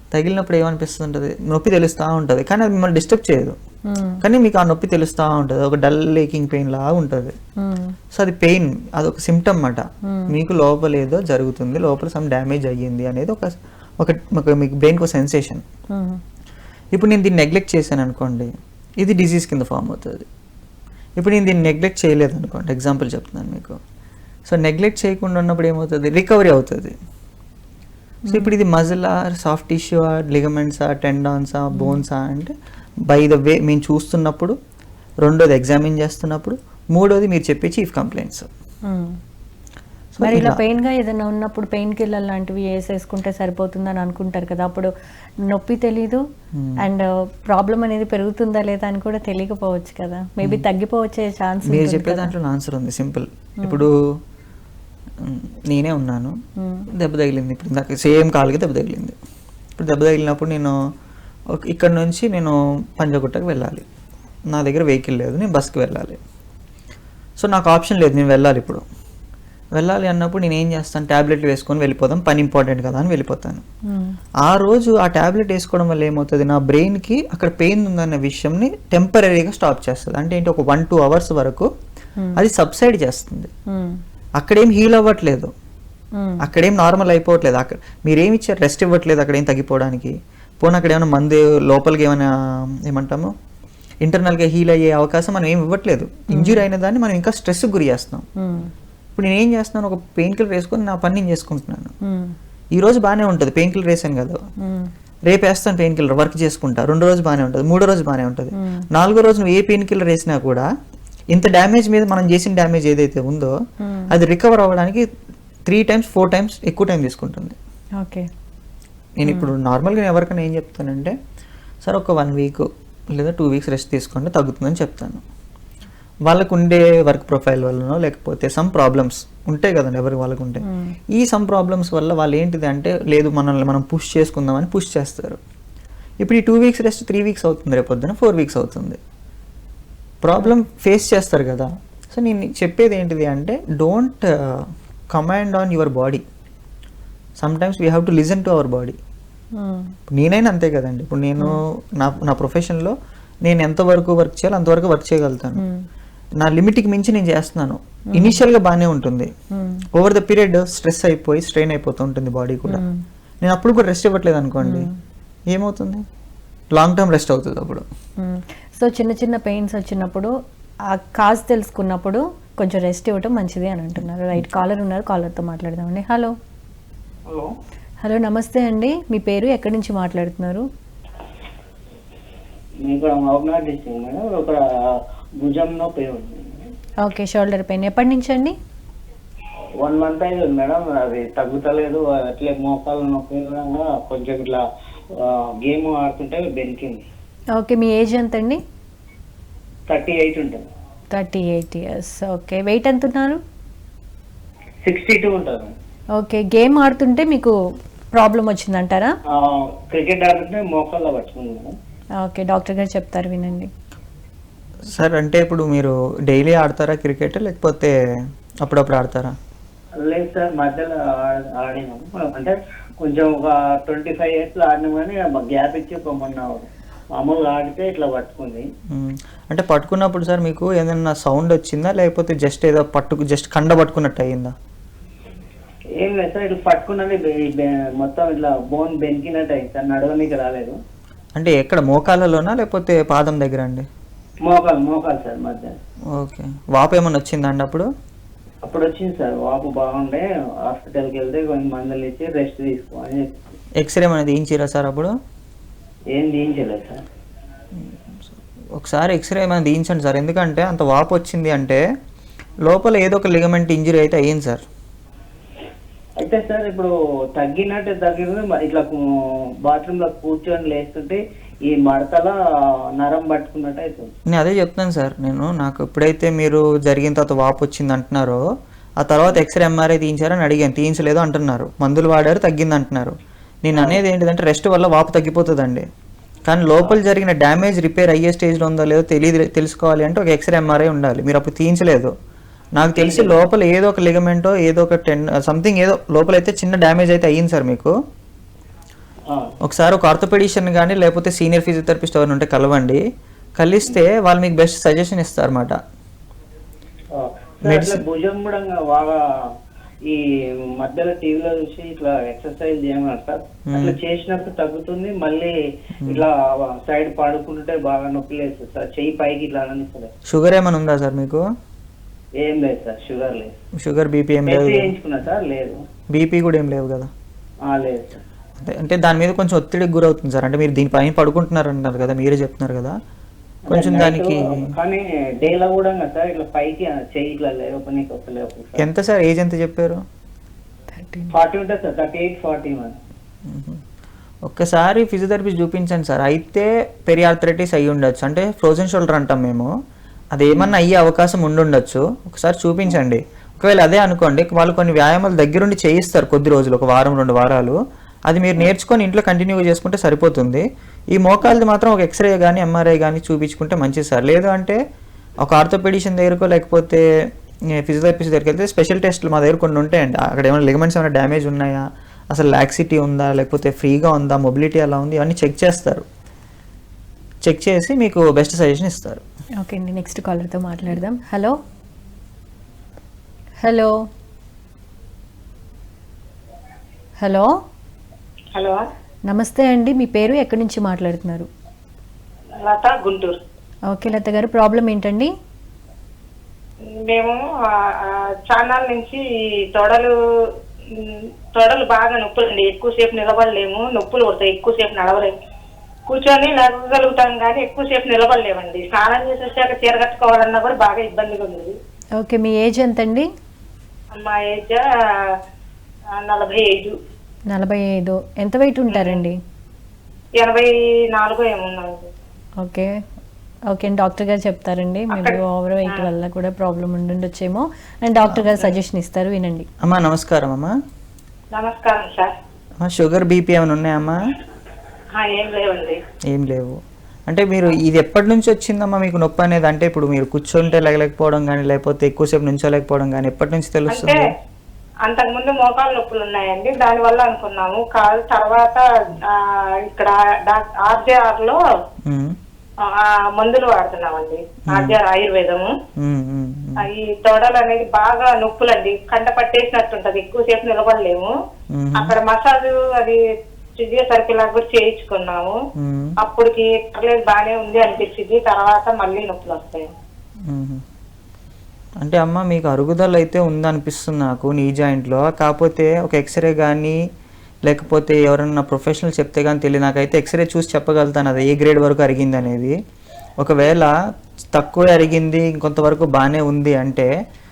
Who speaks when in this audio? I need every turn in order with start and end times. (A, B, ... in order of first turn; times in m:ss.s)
0:00.1-0:03.6 A
0:03.9-0:04.2 B
0:04.2-0:07.3 A
0:07.6-0:08.0 B
0:08.1-0:13.5 A
0:10.1-0:10.3 B
0:14.0-0:15.6 A
0:15.9-0:16.2 B
0:16.9-0:18.5 A
0:19.0-0:20.3 A
0:21.2-0:23.8 A
0:24.5-0:26.9 A
0:28.3-0:32.5 A
0:33.1-0:34.6 A
0:35.2-0:38.5 A
0:38.9-0:39.1 B
0:40.1-0:40.6 A
0:40.2-0:44.9 B
0:45.5-0:46.2 B
0:46.5-0:46.8 A
0:46.8-0:52.3 B
0:51.6-0:53.9 A
0:55.2-0:56.4 A
0:56.6-0:56.9 B
0:57.0-0:59.2 A
0:59.8-1:00.8 A
1:01.6-1:03.8 A
1:04.5-1:06.2 A
1:07.4-1:08.8 A
1:09.8-1:13.6 A
1:13.9-1:14.2 B
1:14.4-1:21.7 A
1:22.4-1:23.5 A
1:23.7-1:24.0 B
1:24.4-1:25.5 A
1:26.2-1:26.4 B
1:26.4-1:32.3 A
1:32.9-1:33.3 A
1:34.0-1:38.2 A
1:36.3-1:36.6 B
1:38.4-1:38.7 B
1:39.2-1:41.9 A
1:42.0-1:42.4 B
1:42.8-1:44.4 A
1:44.6-1:44.9 B
1:45.3-1:50.6 A
1:48.6-1:48.8 B
1:51.3-1:53.5 A
1:53.8-1:54.1 B
1:54.1-1:55.0 A
1:55.7-1:57.6 A
1:58.0-1:58.3 B
1:59.2-2:01.1 A
2:01.8-2:05.2 A
2:06.3-2:15.4 A
2:10.6-2:11.0 B
2:16.2-2:19.0 A
2:20.2-2:26.2 A
2:27.4-2:29.0 A
2:29.6-2:29.9 B
2:30.1-2:32.9 A
2:33.4-2:35.6 A
2:35.6-2:35.8 B
2:36.4-2:39.3 A
2:39.5-2:39.8 B
2:40.0-2:42.8 A
2:42.7-2:43.0 B
2:43.4-2:44.9 A
2:44.6-2:44.9 B
2:45.5-2:46.0 A
2:46.7-2:47.8 A
2:48.2-2:50.3 B
2:50.9-2:56.3 B
2:58.0-3:00.6 B
3:02.8-3:06.7 C
3:07.0-3:08.6 B
3:09.8-3:17.0 C
3:17.6-3:18.6 B
3:19.9-3:20.6 C
3:21.1-3:23.4 B
3:24.8-3:25.7 C
3:26.2-3:27.6 B
3:28.1-3:29.1 B
3:29.3-3:31.7 C
3:32.2-3:33.7 B
3:34.9-3:38.0 A
3:38.6-3:39.3 A
3:40.0-3:48.7 C
3:49.0-3:54.5 A
3:56.0-4:00.8 C
4:01.4-4:03.9 A
4:04.4-4:05.8 C
4:06.1-4:07.9 A
4:08.6-4:13.3 C
4:13.8-4:15.1 A
4:16.1-4:17.0 C
4:17.8-4:21.8 A
4:22.7-4:24.6 A
4:26.2-4:29.0 C
4:29.6-4:32.4 C
4:33.0-4:34.1 C
4:34.3-4:38.4 A
4:39.0-4:45.8 A
4:43.7-4:44.0 C
4:46.5-4:52.1 A
4:52.8-4:57.9 A
4:53.0-4:53.3 C
4:59.3-4:59.5 C
4:59.6-5:03.0 A
5:03.6-5:05.8 A
5:07.1-5:09.2 C
5:07.6-5:08.0 A
5:10.1-5:15.5 C
5:13.7-5:14.0 A
5:16.1-5:20.1 C
5:20.3-5:21.4 A
5:22.4-5:23.6 C
5:23.8-5:24.9 A
5:24.5-5:25.8 C
5:26.1-5:27.1 A
5:27.6-5:28.2 C
5:28.6-5:33.0 A
5:33.7-5:38.9 C
5:33.7-5:34.6 A
5:38.8-5:40.0 A
5:40.9-5:41.3 B
5:41.3-5:43.0 C
5:43.5-5:43.8 A
5:44.5-5:49.7 A
5:50.3-5:57.8 A
5:58.3-6:04.8 A
6:05.4-6:07.0 A
6:07.8-6:16.0 A
6:17.4-6:19.2 A
6:19.6-6:21.6 B
6:23.6-6:23.9 B
6:27.2-6:27.5 B
6:29.3-6:31.5 B
6:32.7-6:33.4 D
6:33.9-6:35.3 B
6:37.1-6:39.2 D
6:39.7-6:40.1 D
6:40.9-6:45.3 D
6:46.1-6:51.7 D
6:52.2-6:53.3 B
6:54.1-6:54.8 D
6:56.2-6:57.0 D
6:57.5-6:59.4 B
6:58.9-6:59.2 D
7:00.4-7:02.1 D
7:02.6-7:02.9 B
7:03.7-7:09.7 B
7:05.1-7:06.1 D
7:09.8-7:10.7 A
7:11.5-7:12.3 D
7:12.8-7:14.2 A
7:15.2-7:16.0 D
7:16.3-7:24.2 A
7:23.9-7:24.2 D
7:25.1-7:31.6 D
7:32.1-7:32.4 A
7:32.8-7:35.7 D
7:34.7-7:35.0 A
7:36.0-7:36.9 A
7:36.8-7:41.3 D
7:41.7-7:42.2 A
7:42.0-7:43.2 D
7:43.8-7:45.6 D
7:45.8-7:46.2 A
7:46.2-7:49.9 D
7:50.5-7:50.8 A
7:52.0-7:57.0 A
7:57.7-8:02.8 A
8:03.4-8:03.9 A
8:04.5-8:07.1 A